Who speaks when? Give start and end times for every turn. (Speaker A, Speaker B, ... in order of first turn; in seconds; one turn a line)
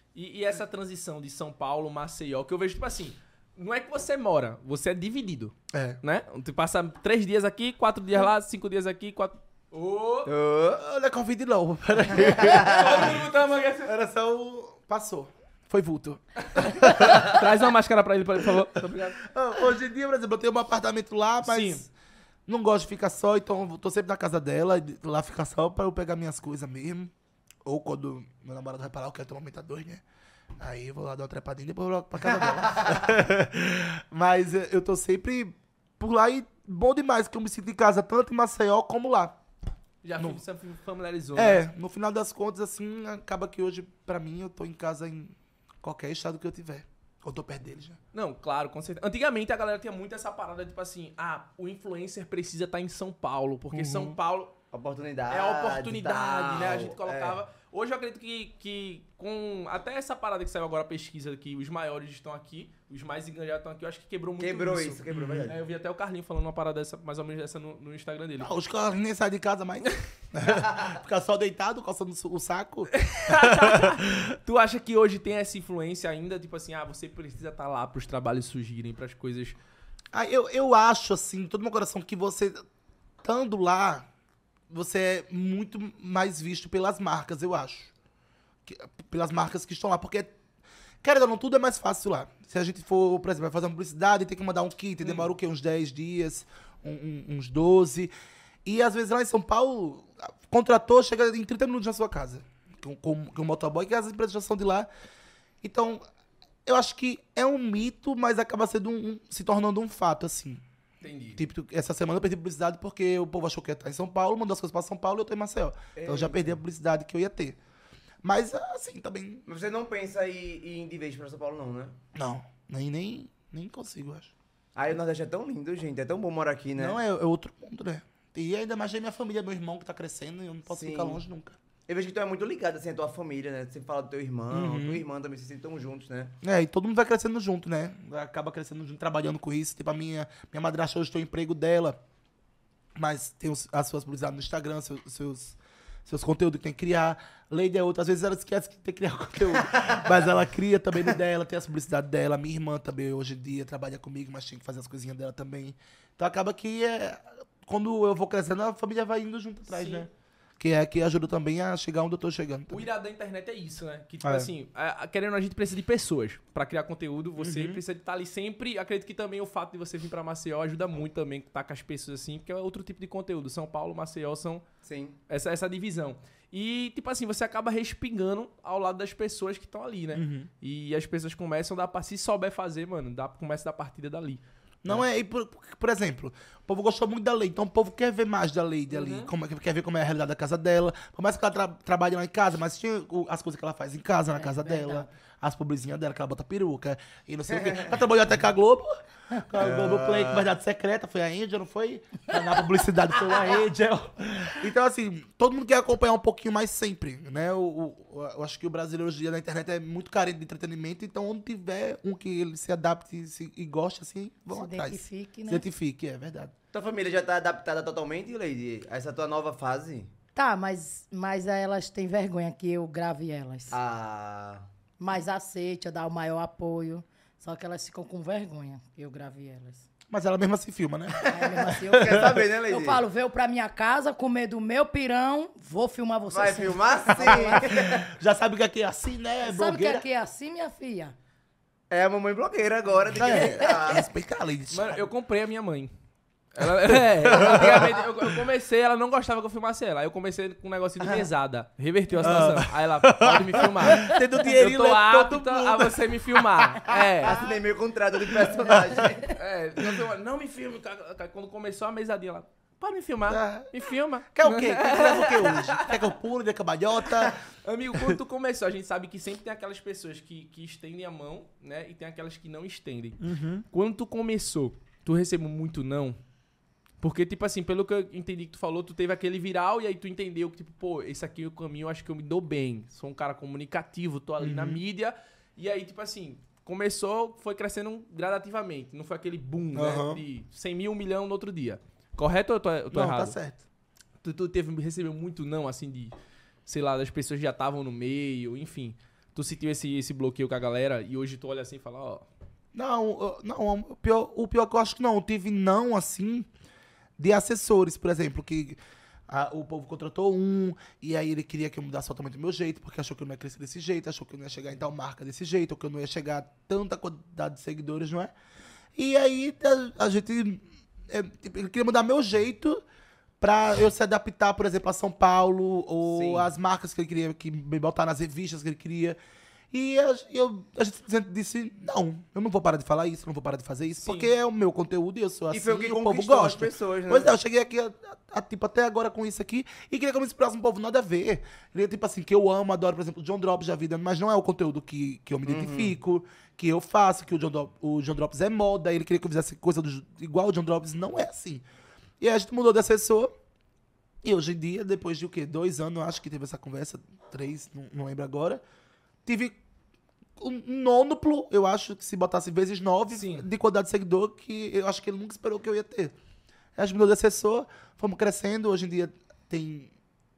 Speaker A: 0.1-10.3
Speaker B: 5.7-6.0
Speaker C: 10.2-10.8
Speaker B: 10.8-13.3
Speaker C: 12.3-13.1
Speaker A: 12.4-13.9
Speaker B: 13.8-17.4
Speaker A: 16.5-19.2
Speaker B: 19.2-21.9
Speaker A: 21.4-21.8
Speaker B: 22.5-27.1
Speaker B: 27.6-30.0
Speaker B: 30.6-39.4
Speaker A: 40.0-41.6
Speaker B: 41.3-48.0
Speaker A: 48.1-54.5
Speaker B: 53.7-54.1
Speaker C: 54.7-57.4
Speaker A: 55.3-68.5
Speaker C: 64.4-65.6
Speaker B: 65.1-65.5
Speaker B: 68.4-74.3
Speaker A: 72.9-79.5
Speaker B: 80.1-82.6
Speaker B: 83.2-84.1
Speaker B: 84.7-87.9
Speaker B: 88.7-90.3
Speaker B: 91.0-98.1
Speaker A: 95.0-95.3
Speaker B: 98.6-104.9
Speaker B: 105.6-106.0
Speaker B: 106.7-110.6
Speaker A: 111.0-111.4
Speaker B: 111.3-117.6
Speaker C: 116.0-116.5
Speaker B: 118.2-119.4
Speaker C: 119.5-122.0
Speaker B: 122.1-124.3
Speaker C: 124.7-127.0
Speaker B: 126.8-131.6
Speaker C: 130.7-131.2
Speaker C: 131.9-136.3
Speaker B: 134.5-135.0
Speaker B: 136.4-142.0
Speaker B: 142.9-162.9
Speaker A: 159.7-160.1
Speaker A: 162.7-174.6
Speaker B: 164.2-164.5
Speaker B: 167.4-167.8
Speaker C: 174.8-175.2
Speaker A: 175.3-184.4
Speaker B: 180.1-180.5
Speaker B: 184.8-216.5
Speaker A: 188.9-189.3
Speaker D: 194.3-195.1
Speaker C: 197.5-198.0
Speaker C: 199.6-200.5
Speaker D: 214.5-215.6
Speaker C: 216.7-220.1
Speaker D: 220.3-223.8
Speaker C: 223.7-224.6
Speaker D: 225.0-229.8
Speaker B: 230.1-232.4
Speaker D: 231.2-237.7
Speaker C: 231.9-233.0
Speaker C: 236.3-238.1
Speaker B: 237.3-240.1
Speaker D: 239.4-241.1
Speaker C: 241.9-244.1
Speaker B: 243.1-245.1
Speaker A: 244.7-245.9
Speaker A: 246.5-257.4
Speaker B: 246.8-248.1
Speaker B: 252.2-257.1
Speaker C: 257.2-259.4
Speaker B: 258.5-259.1
Speaker A: 259.3-266.0
Speaker B: 263.3-263.7
Speaker B: 264.3-267.4
Speaker A: 267.6-276.2
Speaker B: 273.2-273.6
Speaker A: 277.0-293.4
Speaker B: 284.4-284.8
Speaker B: 289.7-290.2
Speaker B: 292.9-293.6
Speaker A: 294.2-296.1
Speaker A: 296.6-302.3
Speaker B: 302.7-306.5
Speaker B: 307.2-318.3
Speaker B: 318.9-322.8
Speaker B: 323.4-329.2
Speaker C: 326.1-326.4
Speaker B: 329.7-351.6
Speaker A: 334.0-334.3
Speaker C: 335.5-337.3
Speaker C: 345.4-345.9
Speaker B: 352.2-353.3
Speaker B: 354.2-358.6
Speaker B: 359.2-359.6
Speaker B: 360.4-366.1
Speaker A: 363.1-363.5
Speaker B: 366.8-369.9